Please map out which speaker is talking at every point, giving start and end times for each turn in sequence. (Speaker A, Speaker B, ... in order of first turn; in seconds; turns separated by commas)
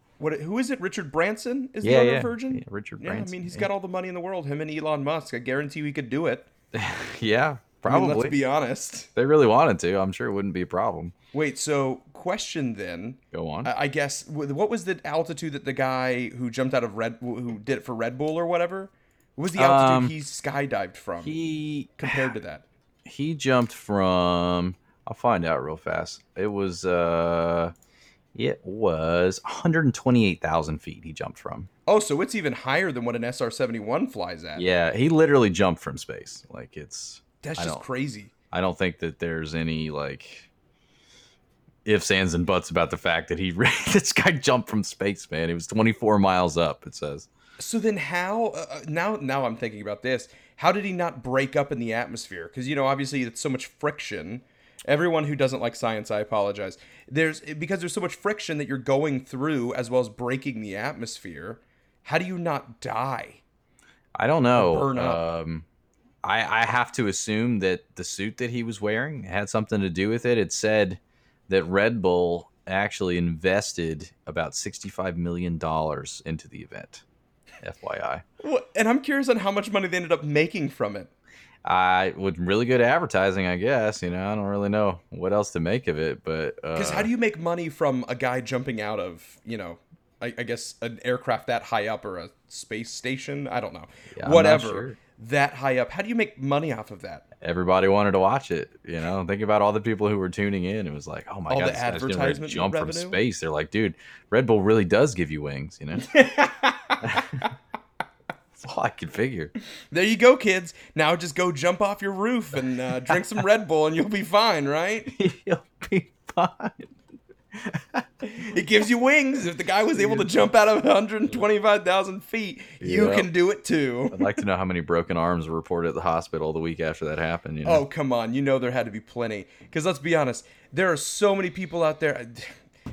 Speaker A: 0.2-6.5, Speaker B: 1.8-3.7, Speaker B: 6.7-8.4, Speaker A: 7.8-9.1, Speaker B: 9.1-11.1, Speaker A: 11.3-21.3, Speaker B: 13.3-13.7, Speaker B: 19.6-20.1, Speaker B: 21.2-22.2, Speaker A: 22.0-22.6, Speaker B: 23.0-27.7, Speaker B: 28.3-31.7, Speaker A: 31.9-34.6, Speaker B: 34.5-37.8, Speaker A: 37.4-38.3, Speaker B: 38.5-40.5, Speaker B: 41.8-47.3, Speaker A: 47.6-63.4, Speaker B: 64.2-65.7, Speaker A: 64.5-65.2, Speaker B: 66.2-77.0, Speaker B: 77.6-78.2, Speaker A: 78.4-81.1, Speaker B: 81.6-87.1, Speaker A: 86.7-97.2, Speaker B: 94.2-95.0, Speaker B: 97.4-106.2, Speaker A: 101.5-103.2, Speaker A: 106.0-107.4, Speaker B: 107.0-107.5, Speaker B: 108.5-109.5, Speaker A: 109.9-115.1, Speaker B: 115.1-116.9, Speaker B: 117.5-118.0, Speaker A: 118.2-124.3, Speaker B: 122.8-123.3, Speaker B: 124.1-127.8, Speaker A: 127.6-132.5